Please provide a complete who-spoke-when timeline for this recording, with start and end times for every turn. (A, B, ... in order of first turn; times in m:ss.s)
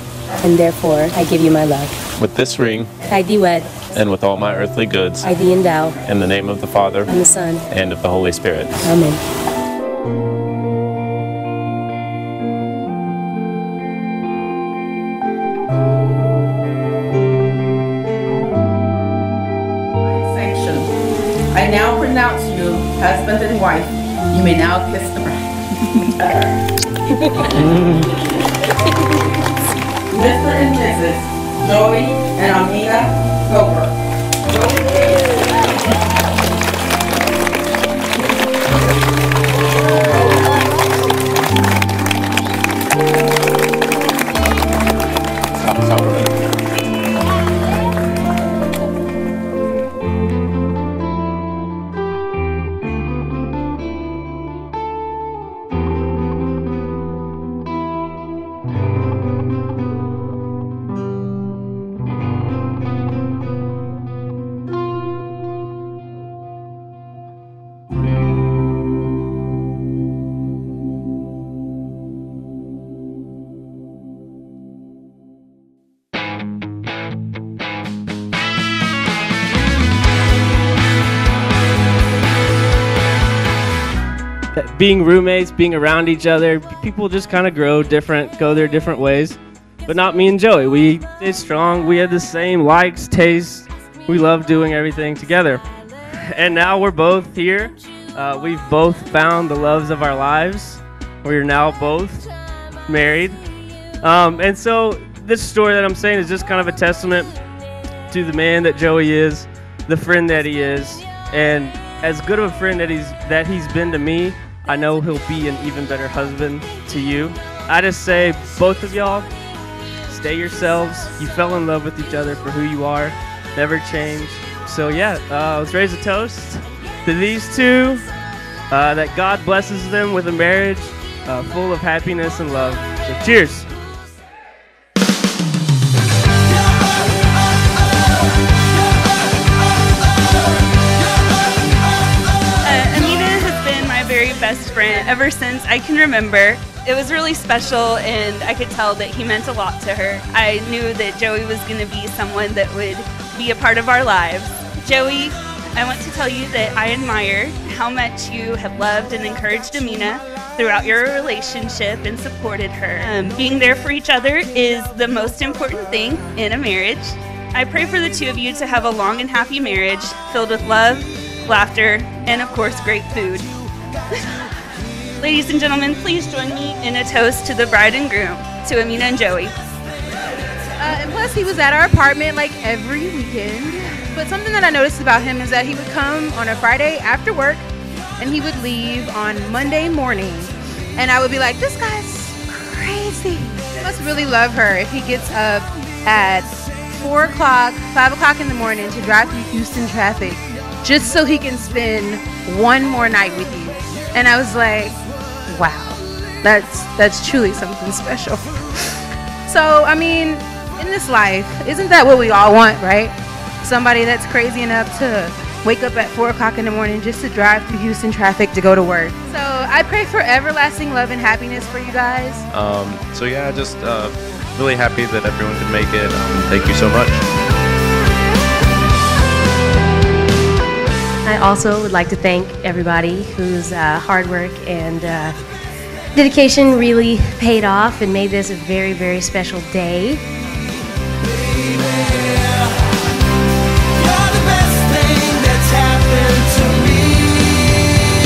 0:00.4-0:02.0 A
0:02.1-0:02.9 B
0:03.1-0:03.8 A
0:03.9-0:05.2 B
0:05.2-0:06.0 A
0:06.0-0:07.1 B
0:07.1-0:07.7 A
0:07.7-0:08.9 B
0:08.8-0:09.2 A
0:20.0-0:20.9 C
0:21.5-0:25.4 C
0:30.1-0:33.9 C
0:34.6-0:34.9 C
0:45.6-0:46.3 B
1:24.5-1:42.3 D
1:42.8-1:43.4 D
1:44.0-1:47.3 D
1:48.1-1:59.3 D
2:00.1-2:08.0 D
2:08.7-2:13.7 D
2:22.6-2:53.5 E
2:55.2-2:59.5 E
3:00.8-3:07.6 F
3:08.2-3:42.4 F
3:42.5-3:47.2 B
3:51.2-3:55.4 A
3:56.1-4:00.2 A
4:04.6-4:07.0 D